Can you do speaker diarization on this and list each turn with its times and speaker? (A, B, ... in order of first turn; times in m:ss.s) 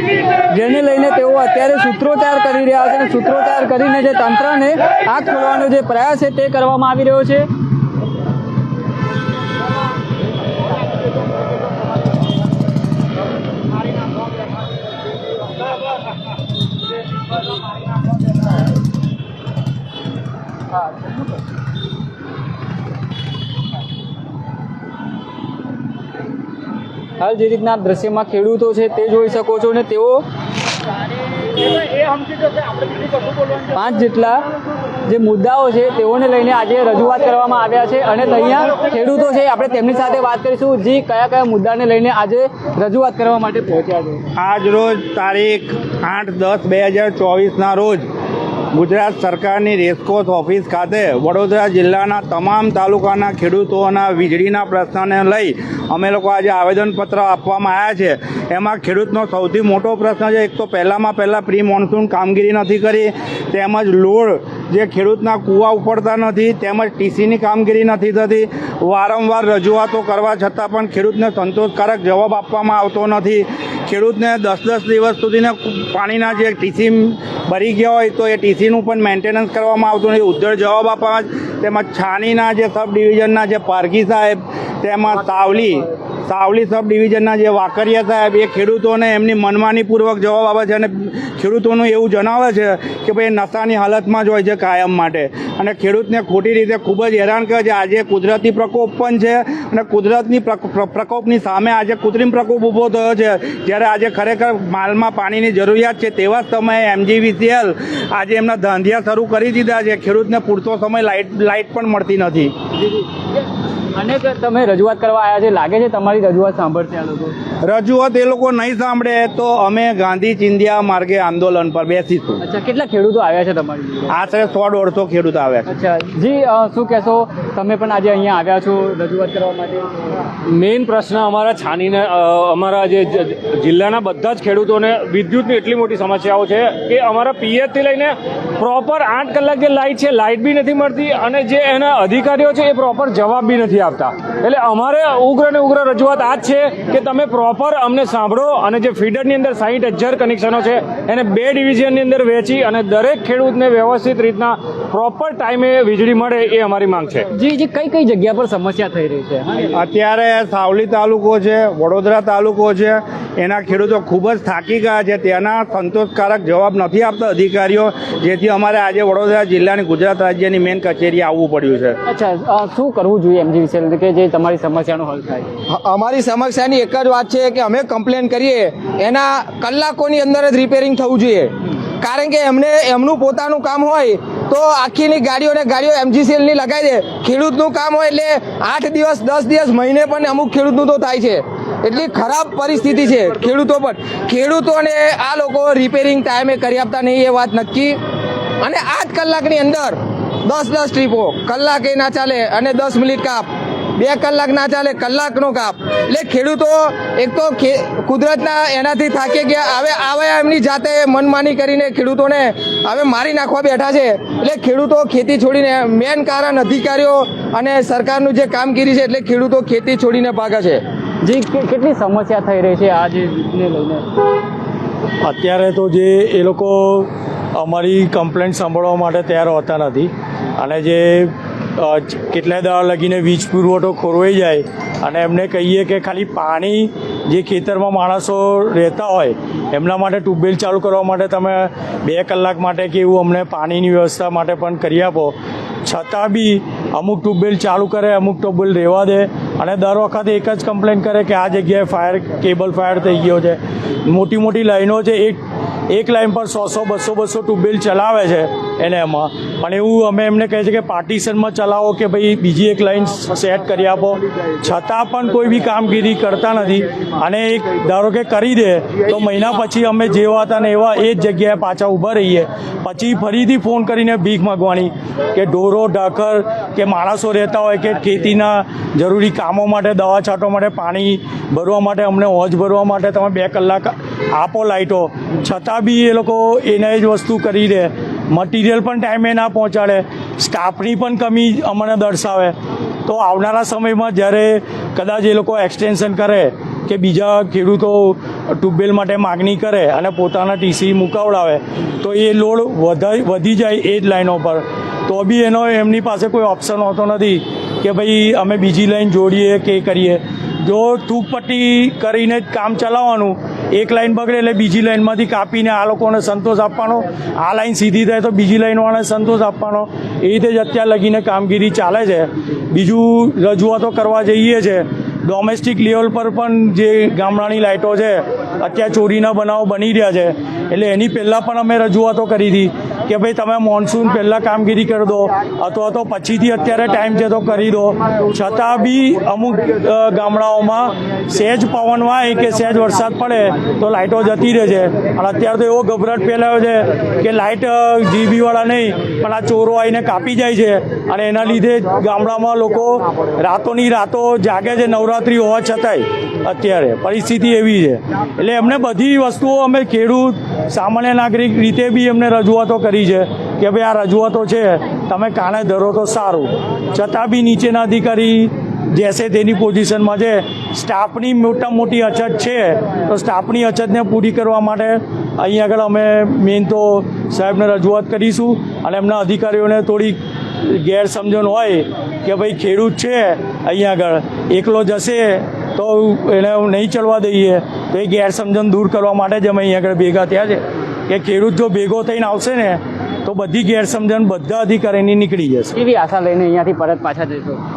0:00.4-0:07.5 A
0:27.2-0:30.2 A
0:33.7-0:34.4 A
0:35.0-0:44.2 A
0:44.4-0:48.1 B
0:48.7-1:52.6 B
1:53.9-1:57.3 A
1:57.6-2:02.4 B
2:02.4-2:04.1 A
2:04.1-2:05.7 B
2:05.7-2:09.9 A
2:10.4-2:37.2 C
2:37.3-2:39.8 A
2:39.7-2:52.0 B
2:52.0-2:55.5 A
2:55.7-3:18.0 D
3:18.6-3:40.8 D
3:41.2-3:44.0 A
3:45.2-4:52.6 E
4:53.1-6:35.7 E
6:35.8-6:37.6 A